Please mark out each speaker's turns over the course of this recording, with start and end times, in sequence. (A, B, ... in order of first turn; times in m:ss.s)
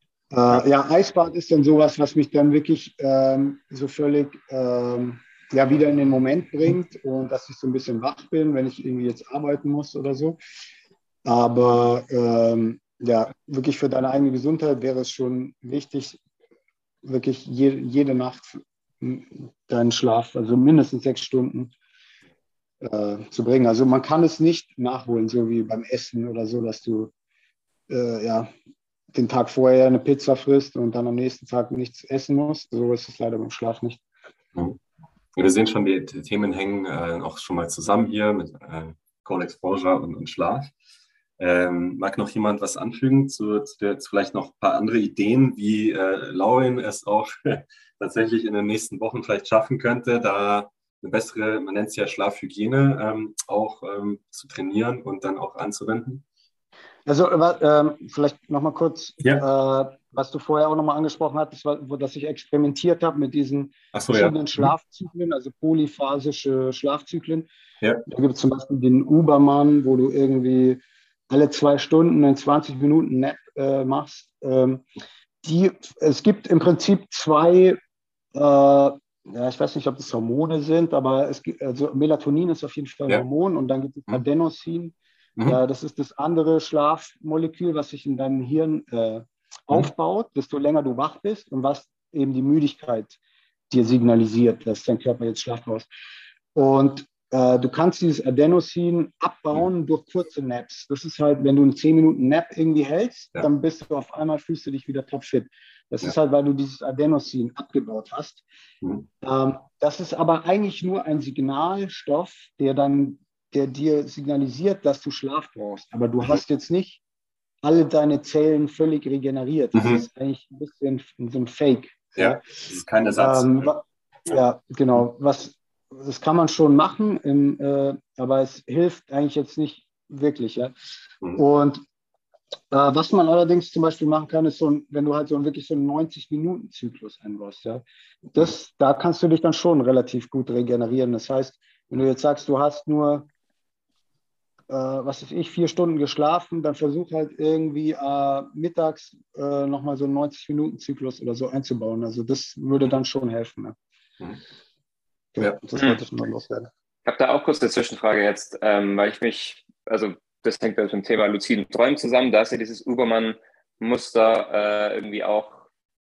0:00.3-0:10.4 A
0:11.2-0:16.2 A
0:17.0-0:21.7 A
0:22.8-0:27.1 A
0:27.9-0:28.5 A
0:29.1-0:34.0 A
0:35.4-0:40.7 B
0:41.4-0:56.2 B
0:57.0-1:07.5 A
1:03.9-1:04.7 B
1:08.0-1:14.8 A
1:15.4-1:17.8 A
1:18.3-1:33.2 A
1:33.7-1:35.9 A
1:36.5-1:48.4 A
1:48.8-1:49.1 B
1:49.2-1:57.0 A
1:57.6-2:02.4 A
1:59.7-2:00.0 B
2:02.2-2:03.7 B
2:03.2-2:10.7 A
2:11.3-2:11.8 A
2:12.7-2:23.3 A
2:24.7-2:33.8 A
2:35.3-2:36.7 A
2:37.0-2:45.6 C